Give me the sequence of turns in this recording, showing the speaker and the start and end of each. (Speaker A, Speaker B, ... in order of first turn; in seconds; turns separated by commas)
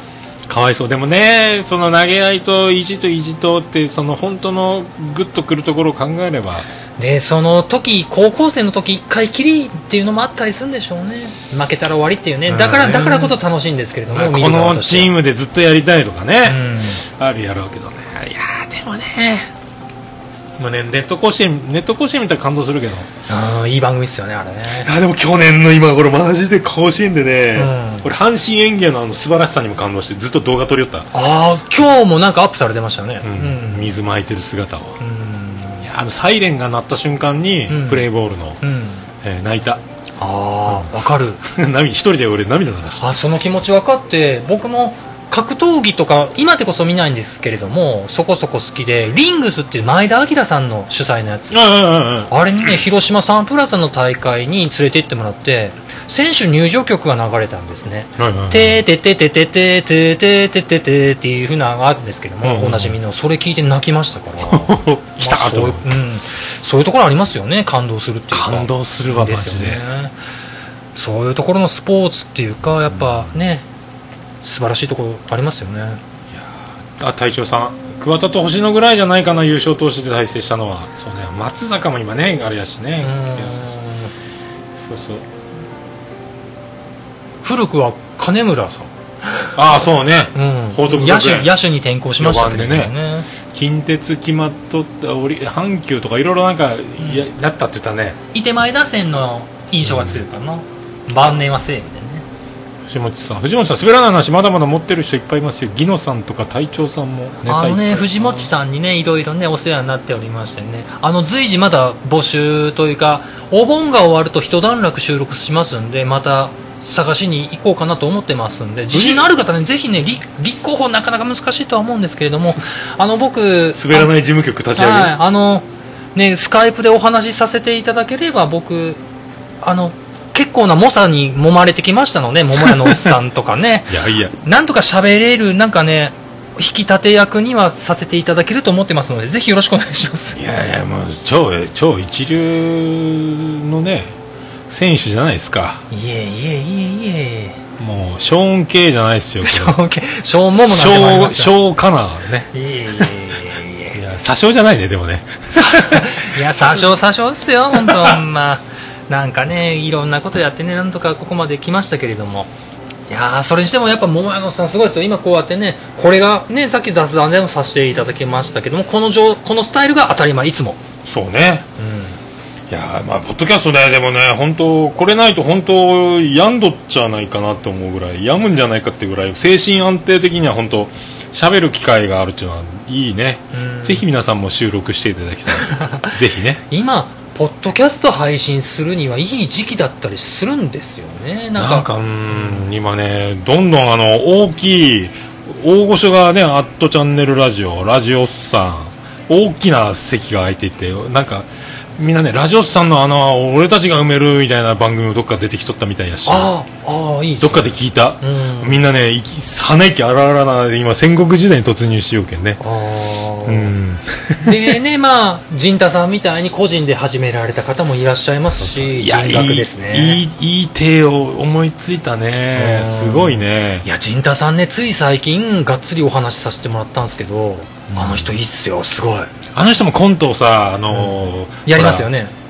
Speaker A: 0.5-6.7, Speaker B: 7.0-15.1, Speaker A: 12.5-13.3, Speaker A: 14.1-19.5, Speaker B: 16.4-17.0, Speaker A: 20.6-23.1, Speaker B: 23.3-24.9, Speaker A: 24.8-31.1, Speaker B: 27.6-28.1, Speaker B: 31.1-33.9, Speaker A: 33.2-35.0, Speaker B: 35.0-35.9, Speaker A: 35.8-38.6, Speaker B: 37.7-38.1, Speaker B: 38.6-39.1, Speaker A: 39.2-39.8, Speaker B: 40.2-41.4, Speaker A: 41.4-43.1, Speaker B: 43.0-51.6, Speaker A: 51.5-52.3, Speaker B: 52.3-70.1, Speaker A: 58.2-58.8, Speaker A: 62.4-63.0, Speaker A: 64.4-66.0, Speaker A: 68.3-69.8, Speaker B: 70.9-73.7, Speaker B: 74.4-76.0, Speaker A: 76.3-83.7, Speaker B: 83.0-84.1, Speaker A: 84.7-85.2, Speaker B: 87.4-89.5, Speaker A: 89.5-91.5, Speaker B: 90.3-93.3, Speaker A: 92.1-92.9, Speaker A: 93.5-98.2, Speaker B: 97.0-97.2, Speaker B: 98.3-102.2, Speaker A: 99.8-100.2, Speaker A: 102.9-108.5, Speaker B: 107.5-124.1, Speaker A: 118.9-119.2, Speaker A: 123.7-125.1, Speaker B: 124.7-129.0, Speaker B: 129.6-140.4, Speaker A: 133.9-134.3, Speaker A: 140.3-144.1, Speaker A: 144.7-145.8, Speaker B: 145.9-147.6, Speaker A: 147.8-149.8, Speaker B: 149.4-151.6, Speaker A: 150.7-152.5, Speaker B: 152.5-154.0, Speaker A: 153.9-156.8, Speaker B: 155.5-162.5, Speaker A: 157.8-158.1, Speaker B: 163.1-170.8, Speaker A: 171.0-171.7, Speaker B: 171.8-172.2, Speaker A: 172.7-186.6, Speaker B: 183.5-184.0, Speaker B: 185.5-186.1, Speaker B: 186.7-192.6, Speaker A: 191.6-206.5, Speaker B: 206.2-208.8, Speaker A: 207.4-212.6, Speaker B: 212.6-213.7, Speaker A: 213.4-214.6, Speaker B: 214.4-220.2, Speaker A: 218.5-223.8, Speaker B: 222.5-229.3, Speaker A: 227.9-228.3, Speaker A: 229.5-232.1, Speaker B: 231.7-232.3